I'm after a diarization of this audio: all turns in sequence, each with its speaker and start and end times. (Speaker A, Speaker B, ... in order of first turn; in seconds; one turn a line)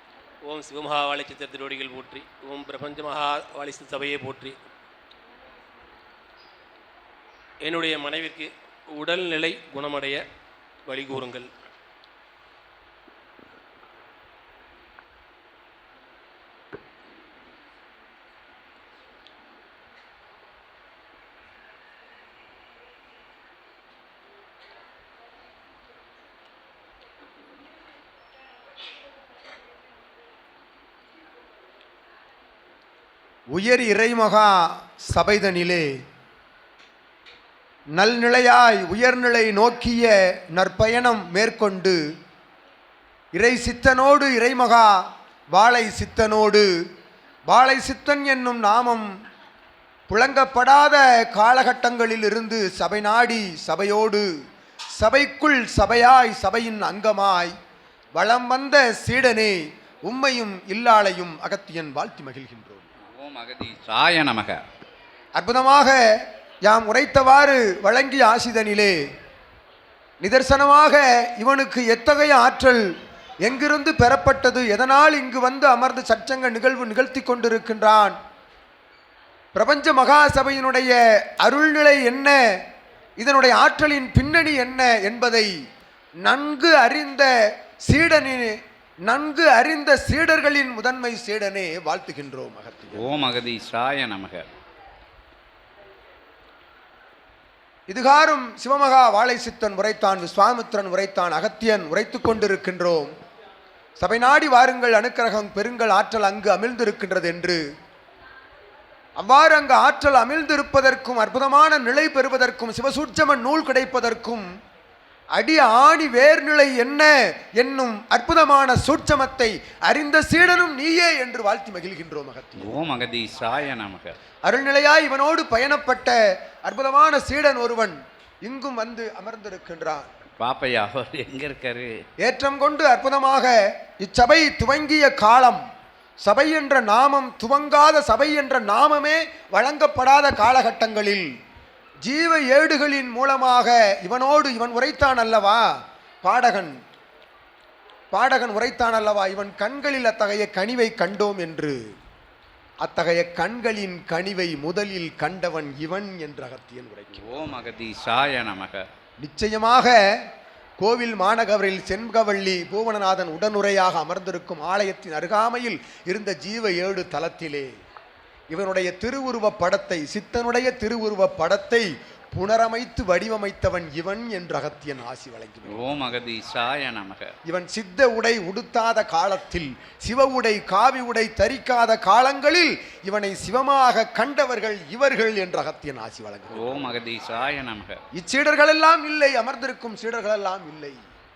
Speaker A: 0.4-4.5
Speaker A: 7.6-10.2
Speaker A: 10.8-11.5
Speaker B: 33.5-35.9
Speaker B: 38.0-42.0
Speaker B: 43.3-46.6
Speaker B: 47.5-49.1
Speaker B: 50.1-54.2
Speaker B: 55.0-57.5
Speaker B: 58.1-62.9
Speaker C: 63.1-64.6
Speaker B: 65.4-66.0
Speaker B: 66.7-68.9
Speaker B: 70.2-72.8
Speaker B: 73.4-78.2
Speaker B: 79.5-82.4
Speaker B: 83.2-85.5
Speaker B: 86.2-87.3
Speaker B: 87.9-88.5
Speaker B: 89.1-93.1
Speaker C: 92.9-94.5
Speaker B: 97.9-103.1
Speaker B: 104.0-107.6
Speaker B: 109.2-114.5
Speaker B: 115.3-122.7
Speaker C: 122.6-124.2
Speaker B: 124.4-130.1
Speaker C: 130.4-131.9
Speaker B: 132.2-135.6
Speaker B: 136.2-141.3
Speaker B: 142.0-146.7
Speaker B: 148.1-151.8
Speaker B: 152.8-157.5
Speaker C: 157.1-158.8
Speaker B: 159.2-159.9
Speaker B: 160.8-167.7
Speaker B: 168.5-175.9
Speaker C: 175.7-177.3
Speaker B: 177.4-186.9
Speaker C: 186.5-188.0
Speaker B: 188.1-191.0